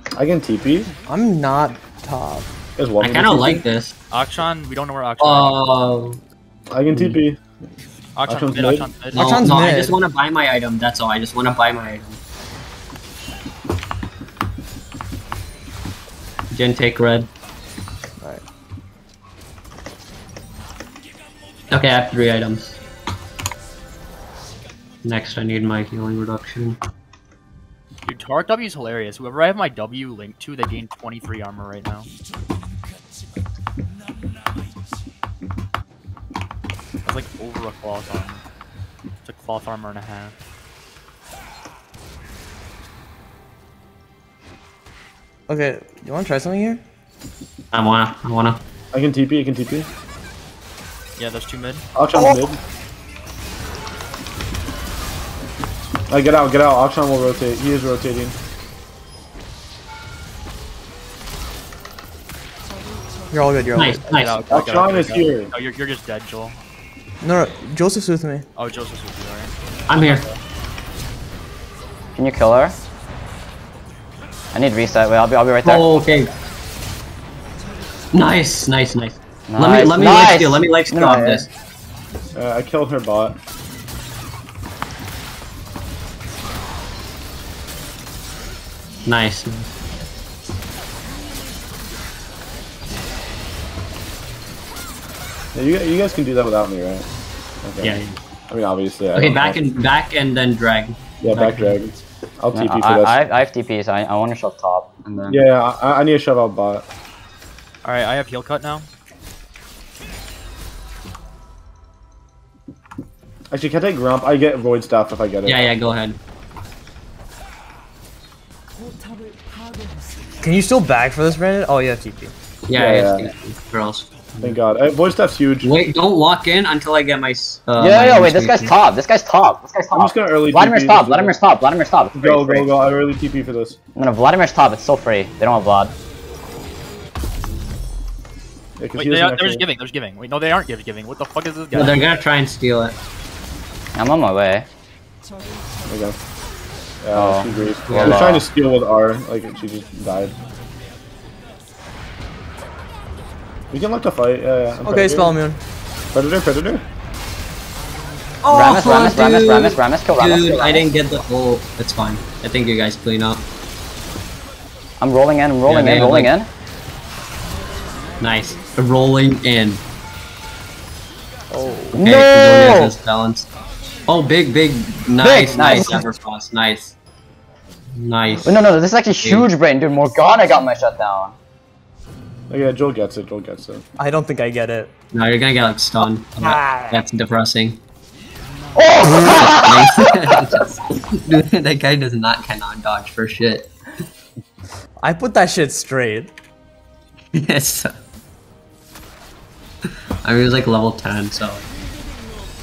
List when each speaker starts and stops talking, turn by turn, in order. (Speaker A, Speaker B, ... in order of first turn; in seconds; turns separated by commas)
Speaker A: 0.1-0.9, Speaker B: 1.1-2.5, Speaker A: 2.8-3.6, Speaker C: 3.0-3.9, Speaker D: 4.1-5.7, Speaker C: 5.2-6.2, Speaker A: 6.7-7.4, Speaker D: 8.2-9.6, Speaker A: 8.2-8.9, Speaker B: 9.1-10.0, Speaker C: 9.1-12.2, Speaker C: 16.5-17.3, Speaker C: 21.7-22.8, Speaker C: 25.0-26.8, Speaker D: 28.0-32.1, Speaker D: 37.0-38.4, Speaker D: 39.2-40.3, Speaker B: 45.5-46.8, Speaker C: 47.7-48.6, Speaker A: 48.9-49.9, Speaker D: 51.2-51.8, Speaker A: 52.0-52.6, Speaker A: 56.1-58.3, Speaker B: 63.3-64.1, Speaker C: 63.7-64.4, Speaker D: 64.1-66.6, Speaker A: 64.5-65.5, Speaker B: 67.2-68.4, Speaker D: 68.5-69.5, Speaker C: 69.9-70.2, Speaker E: 72.2-72.8, Speaker E: 74.5-75.9, Speaker C: 75.6-76.3, Speaker C: 78.1-81.5, Speaker E: 79.5-81.5, Speaker A: 82.3-83.4, Speaker C: 89.0-89.7, Speaker A: 95.5-97.1, Speaker A: 97.6-98.0, Speaker C: 97.8-98.2, Speaker A: 98.5-99.6, Speaker C: 99.1-101.7, Speaker A: 101.2-103.2, Speaker E: 102.5-105.4, Speaker A: 105.3-106.8, Speaker D: 107.8-108.9, Speaker A: 113.5-115.7, Speaker C: 115.5-116.2, Speaker B: 120.4-122.3, Speaker C: 122.7-124.6, Speaker A: 122.7-123.3, Speaker A: 124.4-125.7, Speaker C: 125.6-128.7, Speaker E: 127.8-132.7, Speaker A: 129.9-131.3, Speaker A: 132.1-133.8, Speaker E: 133.9-135.9, Speaker A: 138.8-139.7, Speaker D: 138.9-142.0, Speaker C: 141.7-142.9, Speaker E: 143.9-144.7, Speaker A: 145.8-146.2, Speaker A: 147.0-150.4, Speaker E: 147.1-148.4, Speaker C: 147.8-148.3, Speaker A: 153.7-155.4, Speaker B: 154.8-155.6, Speaker A: 156.1-156.8, Speaker C: 158.4-163.4, Speaker E: 158.5-160.9, Speaker E: 165.0-166.5, Speaker C: 165.6-166.3, Speaker C: 168.2-169.8, Speaker B: 171.5-171.9, Speaker E: 171.9-172.9, Speaker C: 171.9-173.5, Speaker C: 174.1-176.9, Speaker E: 175.2-176.1, Speaker C: 177.9-179.4, Speaker E: 178.4-181.3, Speaker A: 182.5-183.8, Speaker B: 184.0-184.9, Speaker C: 185.1-187.8, Speaker B: 186.4-187.0, Speaker E: 188.8-190.4, Speaker C: 189.3-193.7, Speaker B: 195.0-196.3, Speaker C: 197.3-197.9, Speaker C: 200.2-201.7